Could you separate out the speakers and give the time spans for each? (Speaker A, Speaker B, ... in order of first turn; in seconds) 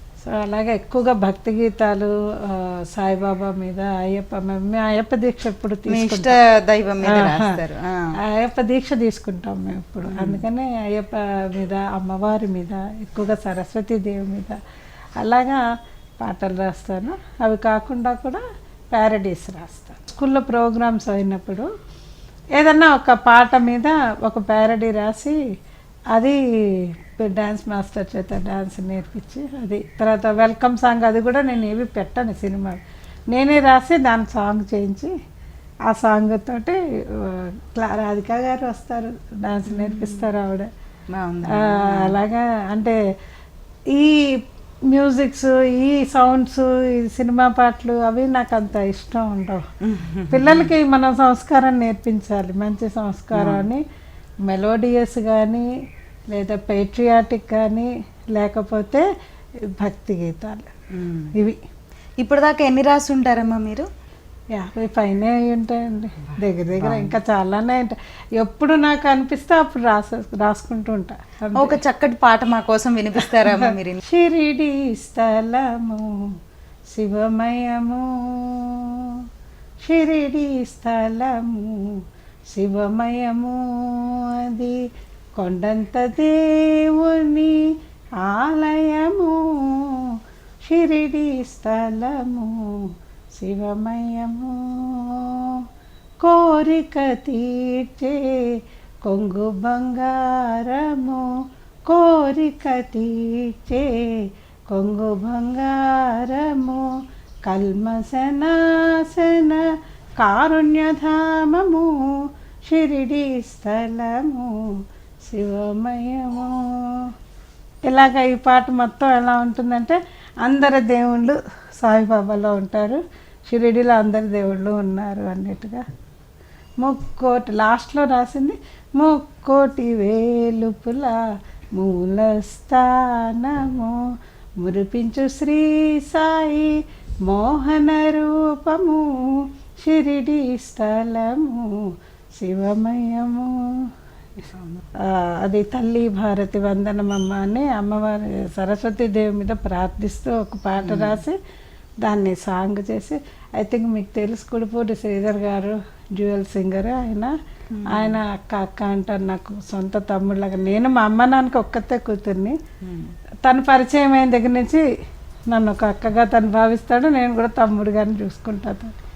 Speaker A: 0.2-6.3, 7.0-7.6, 8.2-14.6, 15.2-15.6, 16.2-21.7, 22.6-25.4, 26.1-35.1, 35.9-40.7, 41.5-43.0, 43.9-44.4, 44.9-49.6, 50.3-53.8, 54.5-55.7, 56.3-59.1, 59.7-60.7, 64.5-71.8, 73.6-76.3, 76.9-79.2, 79.8-82.0, 82.5-84.8, 85.4-87.7, 88.2-90.1, 90.6-95.6, 96.2-106.9, 107.5-114.8, 115.3-117.1, 117.9-125.8, 126.8-131.2, 131.8-134.1, 134.6-143.9, 145.0-151.4, 152.0-157.3, 157.9-162.6, 163.4-164.8, 165.5-168.9
Speaker B: 5.9-8.2, 10.1-10.4, 39.7-40.3, 41.1-42.1, 49.8-50.7, 53.4-53.7, 60.9-61.3, 62.2-63.9, 66.8-67.1, 71.5-74.0, 144.6-144.8, 150.8-151.2, 157.7-158.2, 162.8-163.1